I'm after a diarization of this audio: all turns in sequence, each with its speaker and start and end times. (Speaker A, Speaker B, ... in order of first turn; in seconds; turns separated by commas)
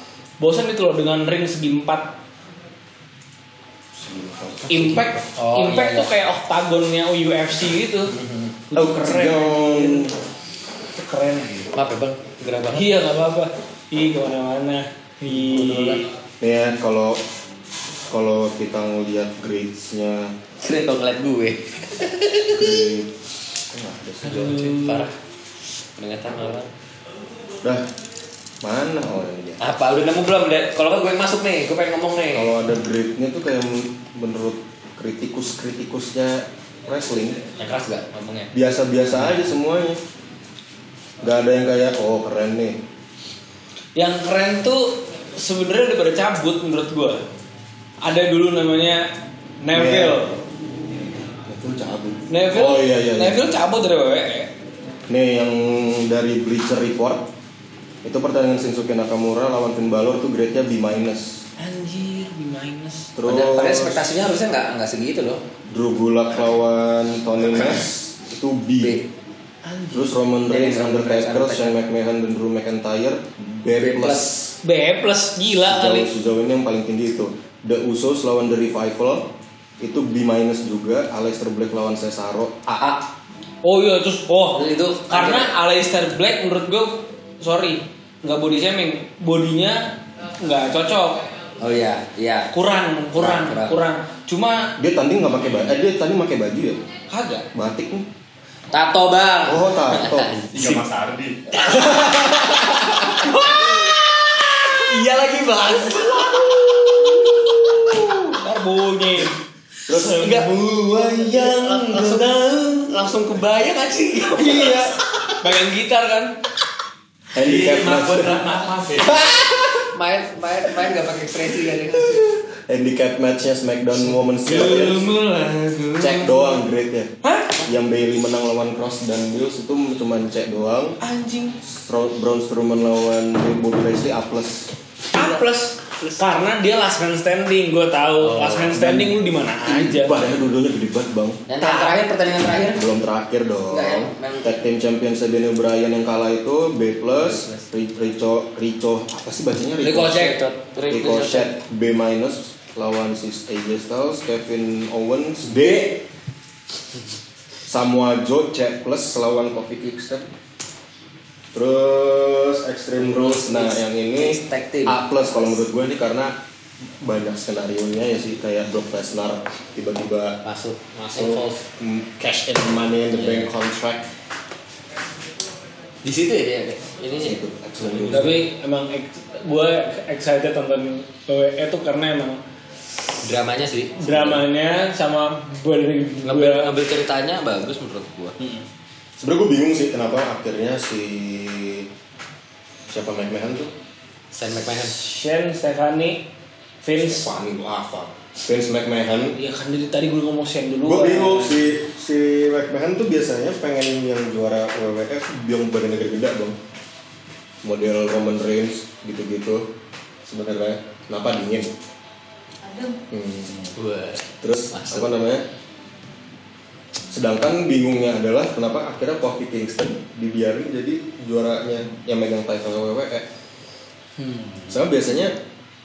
Speaker A: 0.4-2.2, Speaker B: 3.9-5.1, Speaker A: 4.7-8.1, Speaker C: 5.3-6.1, Speaker C: 8.1-8.6, Speaker A: 8.7-10.1, Speaker B: 8.7-10.1, Speaker A: 10.9-11.7, Speaker C: 11.7-12.9, Speaker A: 12.7-16.1, Speaker C: 15.3-16.0, Speaker B: 16.4-17.2, Speaker B: 18.1-20.3, Speaker C: 20.6-22.9, Speaker B: 22.5-23.1, Speaker B: 23.7-24.8, Speaker C: 24.2-25.1, Speaker A: 24.3-25.1, Speaker C: 26.0-26.7, Speaker B: 28.6-29.6, Speaker C: 29.6-32.6, Speaker B: 32.3-37.4, Speaker C: 37.6-38.5, Speaker B: 38.5-40.0, Speaker B: 41.2-42.8, Speaker A: 44.0-47.2, Speaker A: 48.0-49.1, Speaker A: 49.6-50.3, Speaker B: 49.7-50.3, Speaker B: 51.4-53.5, Speaker A: 52.3-54.5, Speaker B: 55.1-57.3, Speaker B: 58.0-61.4, Speaker A: 61.6-63.1, Speaker B: 63.1-64.1, Speaker C: 63.2-65.4, Speaker B: 65.7-69.0, Speaker C: 67.5-67.8, Speaker C: 68.8-69.1, Speaker A: 69.6-70.1, Speaker B: 69.9-74.5, Speaker C: 70.5-71.7, Speaker C: 73.8-74.3, Speaker A: 74.6-76.1, Speaker B: 75.7-82.8, Speaker C: 82.8-83.1, Speaker A: 83.6-91.2, Speaker C: 84.5-85.5, Speaker C: 91.6-92.5, Speaker A: 92.5-94.7, Speaker C: 93.1-93.8, Speaker B: 94.8-96.8, Speaker A: 97.1-97.5, Speaker B: 97.5-98.1, Speaker C: 98.7-100.9, Speaker B: 99.4-100.3, Speaker D: 100.5-101.5, Speaker C: 101.5-108.2, Speaker A: 107.8-109.3, Speaker B: 109.9-112.3, Speaker C: 109.9-114.9, Speaker A: 114.3-116.4, Speaker B: 117.3-119.9, Speaker D: 117.4-119.1, Speaker C: 119.0-122.3, Speaker B: 122.0-125.1, Speaker A: 124.4-126.5, Speaker B: 126.0-131.0, Speaker A: 127.2-127.6, Speaker A: 131.0-131.6, Speaker B: 131.6-134.7, Speaker A: 135.1-140.2, Speaker C: 138.2-139.1, Speaker B: 139.6-141.4, Speaker C: 141.5-142.9, Speaker A: 141.6-142.0, Speaker B: 142.7-150.4, Speaker C: 143.7-144.6, Speaker C: 147.1-147.6, Speaker C: 149.8-151.5, Speaker B: 150.9-156.0, Speaker C: 155.4-156.0, Speaker B: 157.7-160.3, Speaker B: 161.5-166.3, Speaker C: 163.0-165.6, Speaker B: 167.0-170.4, Speaker C: 170.4-171.6, Speaker B: 171.1-174.1, Speaker C: 173.1-173.5, Speaker C: 176.0-178.4, Speaker B: 177.1-178.4, Speaker A: 178.1-182.4, Speaker C: 183.2-184.4, Speaker A: 184.0-186.7, Speaker C: 186.2-188.3, Speaker A: 188.4-188.6, Speaker B: 189.2-191.9, Speaker B: 192.9-193.7, Speaker C: 194.3-195.0, Speaker A: 194.8-196.3, Speaker A: 196.8-197.3, Speaker B: 196.9-199.3, Speaker A: 199.3-201.7, Speaker B: 200.8-206.6, Speaker B: 207.6-209.7, Speaker B: 210.2-211.7, Speaker B: 213.0-213.7, Speaker C: 213.7-215.1, Speaker B: 214.4-215.4, Speaker B: 217.1-223.3, Speaker A: 224.2-224.8, Speaker B: 224.7-225.3